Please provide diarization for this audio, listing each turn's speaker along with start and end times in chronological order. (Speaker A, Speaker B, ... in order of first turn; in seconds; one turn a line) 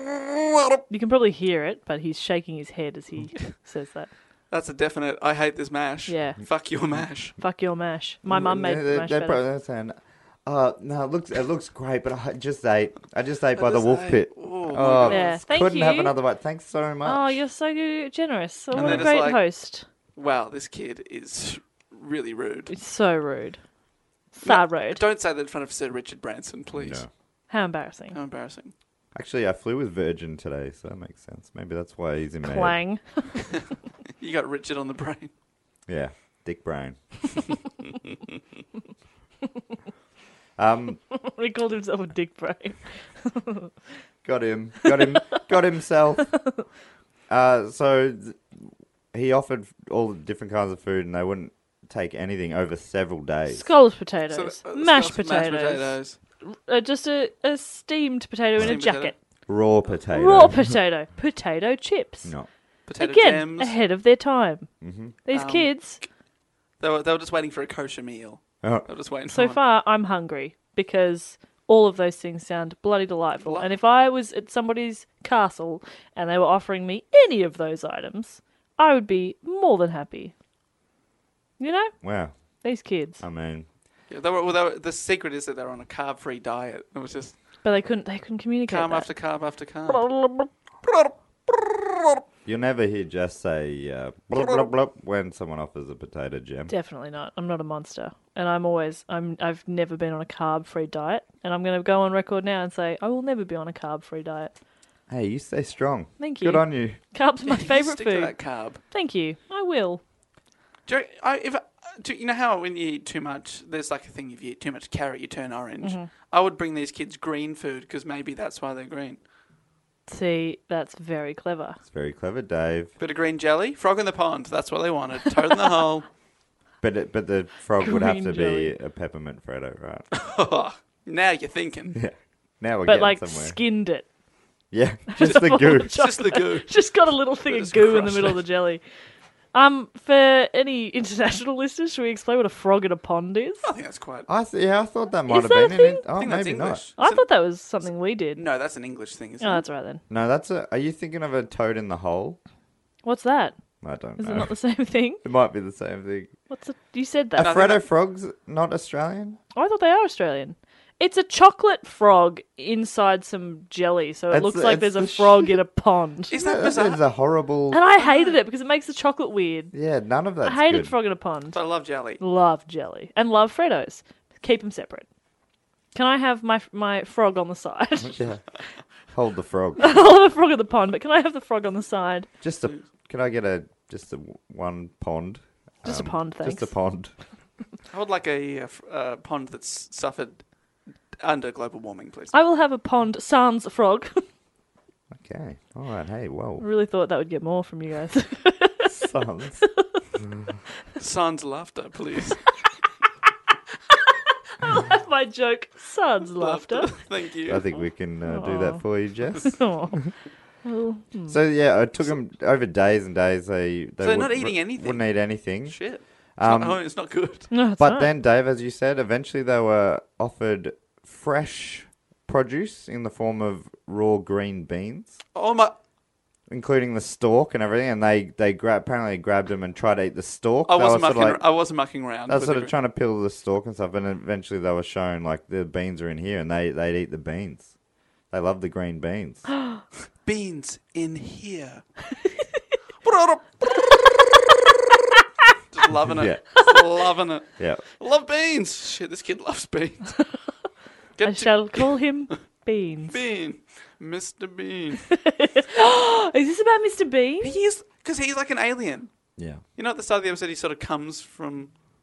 Speaker A: 0.9-4.1
Speaker B: 4.5-7.4
Speaker A: 6.1-6.4
Speaker A: 7.4-9.4
Speaker C: 8.2-17.4
Speaker B: 13.6-15.3
Speaker A: 15.1-16.1
Speaker A: 17.0-19.8
Speaker B: 18.7-19.4
Speaker C: 18.8-19.1
Speaker B: 20.1-22.7
Speaker A: 22.7-23.6
Speaker A: 24.3-25.0
Speaker B: 24.4-27.0
Speaker C: 26.7-27.1
Speaker A: 27.5-28.2
Speaker B: 28.1-28.7
Speaker C: 29.1-32.8
Speaker A: 32.4-33.5
Speaker B: 34.2-35.3
Speaker C: 35.9-37.0
Speaker C: 40.6-41.0
Speaker A: 41.1-43.7
Speaker C: 44.2-46.4
Speaker A: 44.8-45.4
Speaker C: 47.3-53.6
Speaker A: 53.5-59.1
Speaker B: 54.3-56.2
Speaker B: 58.6-59.1
Speaker C: 59.5-60.8
Speaker A: 60.1-62.3
Speaker B: 62.9-63.7
Speaker A: 63.0-64.7
Speaker C: 64.8-65.1
Speaker A: 65.2-66.0
Speaker B: 65.3-66.0
Speaker B: 66.8-69.6
Speaker C: 68.6-68.9
Speaker A: 69.3-80.3
Speaker B: 73.4-73.7
Speaker A: 81.6-81.9
Speaker C: 82.0-82.3
Speaker A: 82.6-83.2
Speaker C: 83.2-83.7
Speaker B: 84.1-87.3
Speaker A: 87.6-89.1
Speaker B: 88.7-90.1
Speaker A: 89.9-90.5
Speaker B: 90.8-92.2
Speaker C: 92.4-96.7
Speaker B: 94.3-94.7
Speaker A: 96.7-104.5
Speaker C: 105.1-107.0
Speaker A: 106.2-108.3
Speaker B: 107.5-108.8
Speaker A: 108.9-110.0
Speaker B: 110.9-119.2
Speaker A: 115.8-116.1
Speaker A: 120.1-121.8
Speaker C: 121.8-122.9
Speaker B: 123.0-126.0
Speaker C: 126.8-130.1
Speaker A: 127.8-128.7
Speaker B: 130.1-132.0
Speaker C: 131.9-133.6
Speaker A: 132.8-134.1
Speaker C: 134.7-136.0
Speaker A: 135.1-138.8
Speaker B: 135.2-136.9
Speaker B: 137.4-138.4
Speaker A: 139.5-143.6
Speaker B: 143.6-144.3
Speaker C: 144.3-146.8
Speaker A: 145.3-146.0
Speaker B: 146.2-147.2
Speaker A: 147.0-148.4
Speaker B: 148.3-149.6
Speaker A: 149.4-150.0
Speaker C: 150.1-152.4
Speaker A: 153.0-153.5
Speaker C: 153.8-154.6
Speaker A: 154.2-155.2
Speaker C: 155.2-156.3
Speaker A: 156.5-157.6
Speaker C: 157.4-159.4
Speaker B: 157.4-157.8
Speaker A: 159.5-166.4
Speaker C: 164.3-165.6
Speaker B: 166.3-167.0
Speaker C: 166.3-167.8
Speaker A: 167.7-169.7
Speaker C: 169.7-170.9
Speaker A: 170.4-171.6
Speaker B: 171.5-172.2
Speaker A: 172.2-175.1
Speaker A: 175.9-178.2
Speaker C: 178.0-178.4
Speaker C: 179.1-180.0
Speaker A: 179.8-182.3
Speaker C: 182.4-187.1
Speaker A: 185.8-186.7
Speaker B: 187.9-190.4
Speaker B: 191.2-192.3
Speaker A: 192.3-194.2
Speaker C: 195.1-196.6
Speaker A: 196.6-198.9
Speaker C: 198.8-199.7
Speaker B: 201.0-202.5
Speaker A: 204.6-206.9
Speaker B: 206.4-207.6
Speaker C: 207.5-210.1
Speaker A: 208.2-208.8
Speaker A: 209.4-209.9
Speaker A: 210.6-211.4
Speaker C: 211.3-215.8
Speaker B: 214.0-217.5
Speaker C: 216.4-216.8
Speaker A: 217.5-218.1
Speaker C: 217.8-225.2
Speaker B: 225.3-225.8
Speaker C: 226.5-231.4
Speaker B: 230.7-232.7
Speaker C: 232.3-237.7
Speaker C: 238.3-239.5
Speaker B: 240.2-241.8
Speaker B: 243.0-243.7
Speaker B: 245.7-250.2
Speaker C: 246.1-246.4
Speaker C: 247.6-247.8
Speaker B: 251.2-251.9
Speaker A: 251.2-253.2
Speaker B: 253.1-255.1
Speaker A: 255.1-257.6
Speaker B: 257.4-259.1
Speaker C: 259.4-259.6
Speaker B: 259.8-261.7